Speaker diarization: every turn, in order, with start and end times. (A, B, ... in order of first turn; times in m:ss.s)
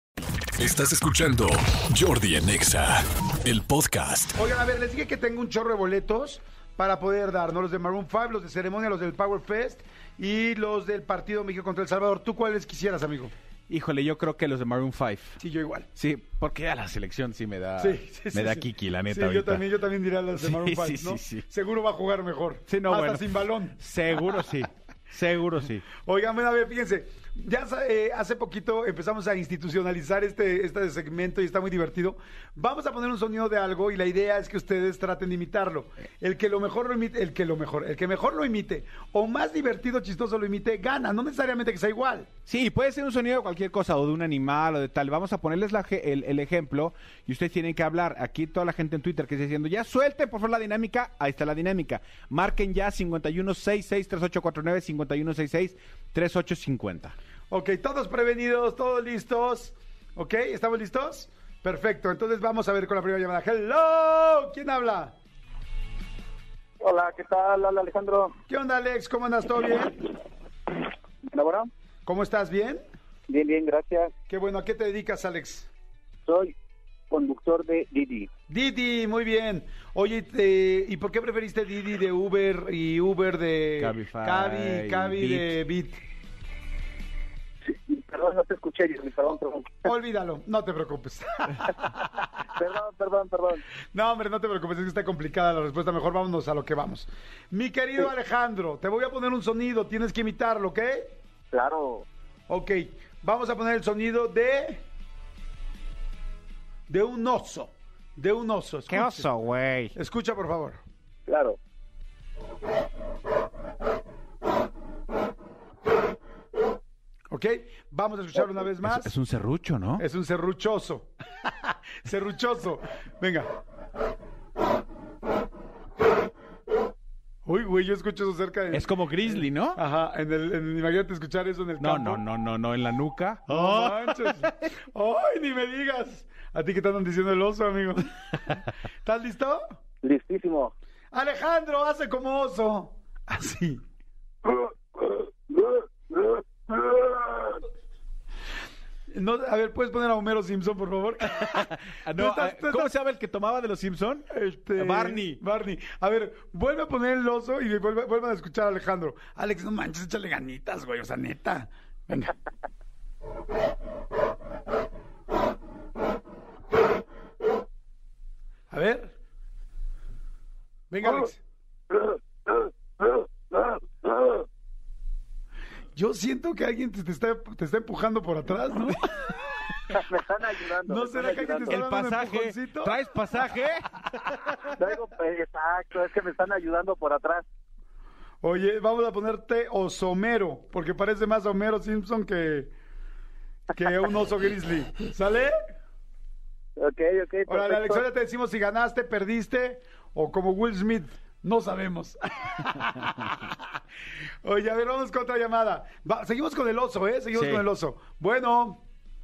0:00.6-0:04.4 A
0:04.4-0:13.3 B
0:13.7-0:15.4 C
0:15.4-0:15.9 B
0:16.0-0:19.7 C
0:17.8-0:23.8 B
0:20.4-0:21.4 C
0:22.7-0:23.2 C
0:23.8-0:25.8 C
0:26.0-0:42.3 B
0:42.5-0:57.2 C
0:57.5-1:05.1 B
1:06.8-1:08.3 D
1:08.5-1:10.0 B
1:11.3-1:11.7 D
1:12.0-1:12.8 B
1:13.3-1:14.1 D
1:14.3-1:15.7 B
1:16.3-1:16.5 D
1:17.1-1:18.3 D
1:18.5-1:26.0 B
1:23.8-1:25.5 C
1:27.9-1:29.9 D
1:29.8-1:31.7 B
1:32.6-1:33.6 D
1:33.9-1:41.2 B
1:41.5-1:42.0 D
1:42.5-1:44.8 B
1:46.9-1:49.3 B
1:48.9-1:49.9 C
1:49.9-1:50.8 B
1:57.3-1:59.1 B
1:58.8-2:00.0 C
2:00.0-2:03.5 B
2:07.4-2:12.2 B
2:08.7-2:09.8 C
2:11.8-2:14.6 C
2:13.5-2:19.8 B
2:20.0-2:20.7 D
2:21.1-2:23.8 B
2:29.1-2:32.9 B
2:31.4-2:35.4 C
2:34.3-2:42.3 B
2:48.7-2:49.1 B
2:50.9-2:51.4 B
2:55.9-2:59.4 B
2:59.9-3:01.8 D
3:00.8-3:03.0 B
3:01.7-3:03.9 C
3:04.8-3:07.4 D
3:08.4-3:12.7 B
3:13.7-3:15.5 B
3:16.8-3:18.0 D
3:17.5-3:23.8 B
3:24.4-3:28.8 B
3:27.3-3:27.6 C